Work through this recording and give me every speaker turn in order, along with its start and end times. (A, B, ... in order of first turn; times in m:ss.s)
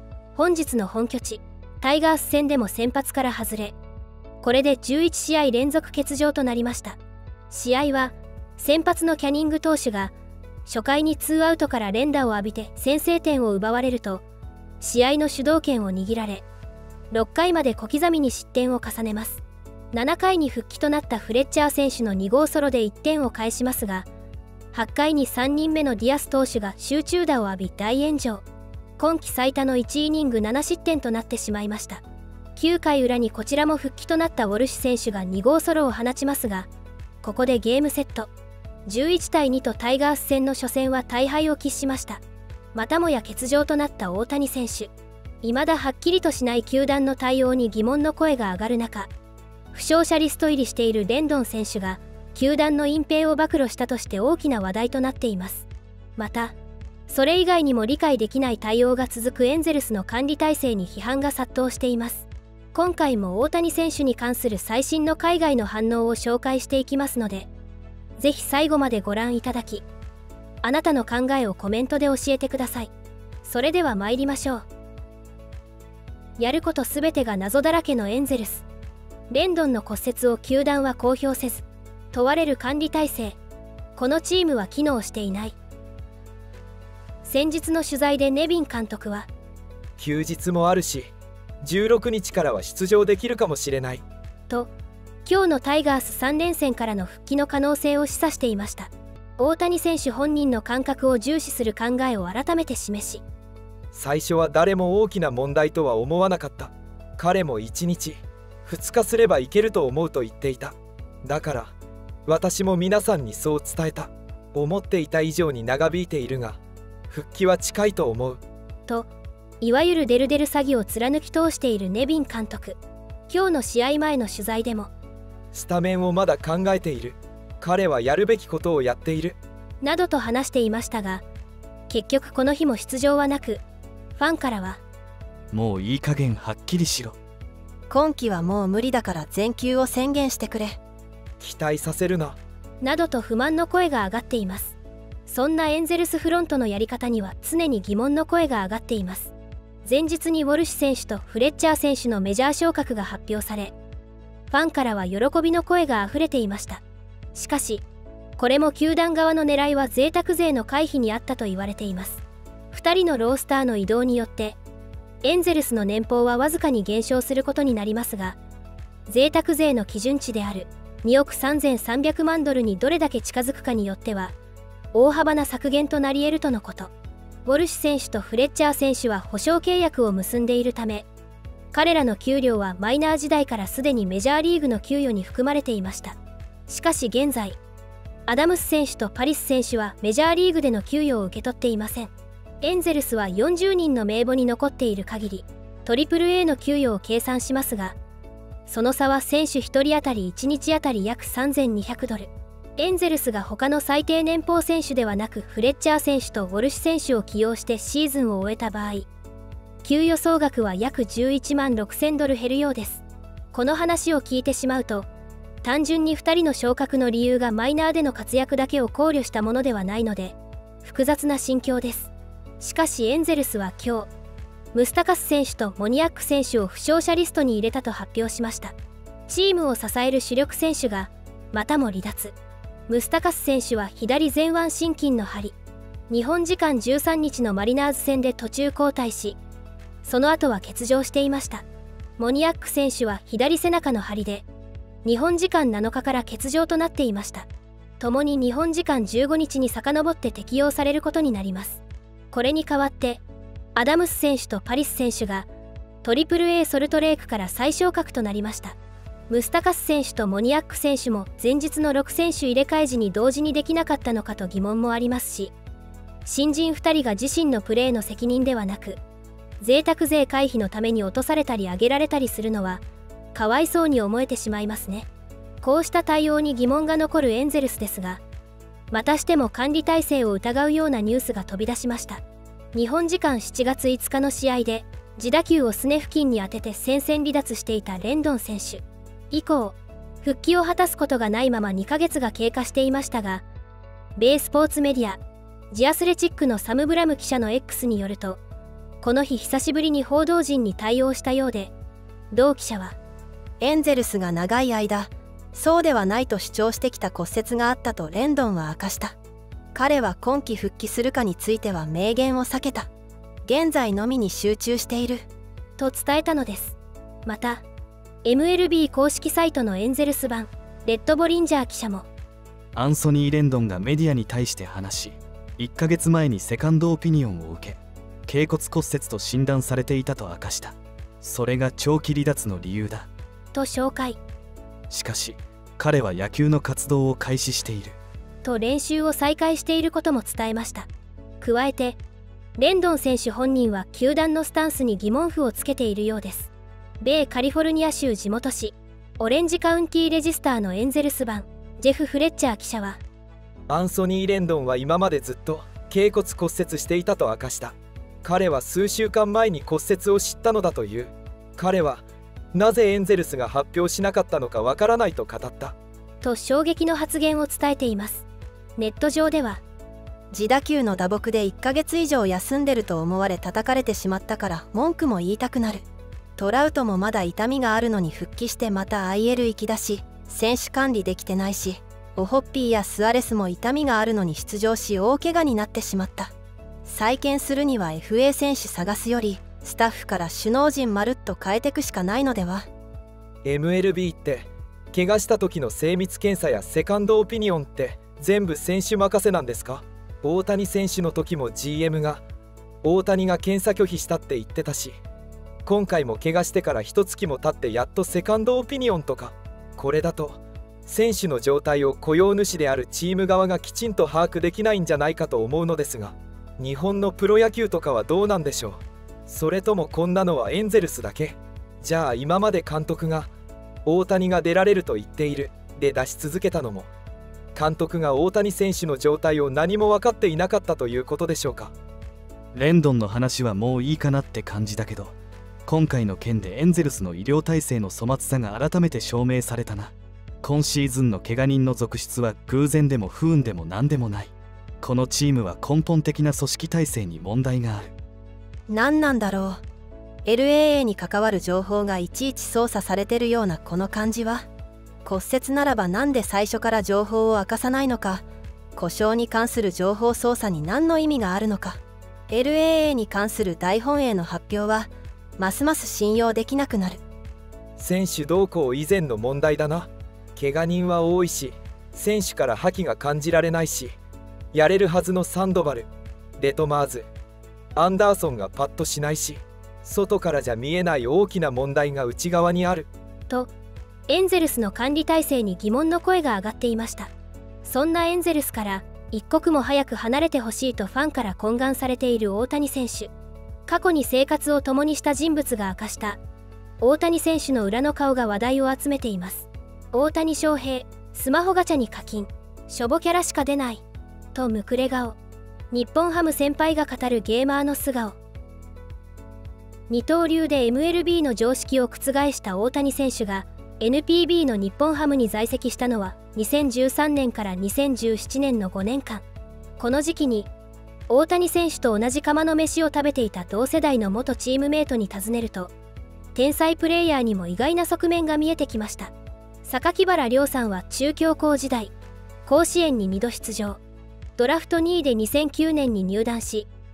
0:00.4-0:03.8 A
0:04.4-0:07.0 A
0:07.5-0:10.1 A
0:10.6-0:14.2 A
0:14.8-0:16.4 A
0:17.1-0:24.1 A
0:24.7-0:28.4 A
0:29.0-0:32.0 A
0:32.6-0:36.7 A
0:37.2-0:38.3 A
0:38.9-0:42.2 A
0:42.7-0:44.9 A
0:45.4-0:49.1 A
0:49.7-0:55.7 A
0:56.2-0:56.6 A
0:57.1-1:07.5 A
1:08.2-1:09.8 A
1:10.6-1:12.9 A
1:13.4-1:14.7 A
1:16.4-1:18.7 A
1:19.3-1:23.4 A
1:24.0-1:25.6 A
1:27.2-1:29.3 A
1:30.0-1:31.1 B
1:31.6-1:34.0 B
1:35.2-1:43.2 A
1:43.9-1:51.7 B
1:52.3-1:56.6 B
1:57.1-1:58.4 B
1:59.6-2:02.8 A
2:03.3-2:04.9 A
2:05.5-2:09.4 B
2:09.8-2:11.2 A
2:11.9-2:13.6 A
2:14.2-2:14.8 A
2:15.5-2:17.2 C
2:17.9-2:20.8 D
2:21.4-2:22.4 B
2:22.8-2:29.3 A
2:29.8-2:33.7 A
2:34.5-2:36.8 A
2:37.3-2:37.8 A
2:38.4-2:44.6 A
2:45.2-2:48.4 A
2:49.1-2:54.4 A
2:54.9-2:56.9 A
2:57.4-3:01.1 A
3:01.7-3:06.2 A
3:06.7-3:07.6 A
3:08.3-3:18.0 A
3:18.7-3:29.1 A
3:29.8-3:35.1 A
3:35.6-3:44.1 A
3:44.7-3:48.8 A
3:49.3-3:52.4 A
3:52.9-3:55.6 A
3:56.1-3:59.4 A
4:00.0-4:01.6 A
4:02.2-4:04.5 A
4:05.0-4:07.5 A
4:08.0-4:13.2 A
4:13.8-4:15.5 A
4:16.0-4:18.8 A
4:19.3-4:25.5 A
4:26.2-4:29.0 A
4:29.6-4:32.8 A
4:33.3-4:35.1 A
4:35.6-4:38.2 A
4:38.9-4:42.2 A
4:42.7-4:53.4 A
4:54.2-4:55.2 A
4:55.7-4:58.4 A
4:59.0-5:01.7 A
5:02.3-5:03.0 A
5:03.6-5:09.2 D
5:09.7-5:12.9 D
5:13.4-5:15.3 D
5:15.8-5:17.6 A
5:18.2-5:22.1 A
5:22.8-5:33.1 C
5:33.5-5:34.2 A
5:34.9-5:38.0 C
5:38.4-5:40.9 A
5:41.4-5:42.0 A
5:42.6-5:53.0 A
5:53.7-6:05.8 B
6:06.2-6:08.3 A
6:08.8-6:09.6 A
6:10.3-6:15.8 D
6:16.4-6:26.3 D
6:26.8-6:32.7 D
6:33.4-6:42.2 B
6:42.8-6:45.0 B
6:45.7-7:03.3 B
7:03.9-7:06.9 B
7:07.6-7:11.7 B
7:12.6-7:15.2 C
7:15.7-7:27.9 C
7:28.7-7:29.6 D
7:30.2-7:34.5 D
7:35.0-7:47.0 D
7:47.8-7:54.0 B
7:54.5-7:57.1 B
7:57.8-8:02.9 B
8:04.1-8:07.1 A
8:07.6-8:13.1 A
8:13.7-8:16.2 A
8:16.8-8:23.8 A
8:24.3-8:25.2 A
8:25.7-8:28.2 A
8:29.9-8:39.2 A
8:39.8-8:40.5 A
8:41.1-8:45.7 A
8:46.4-8:49.1 A
8:49.6-8:51.9 A
8:52.5-8:53.8 A
8:54.4-8:56.7 A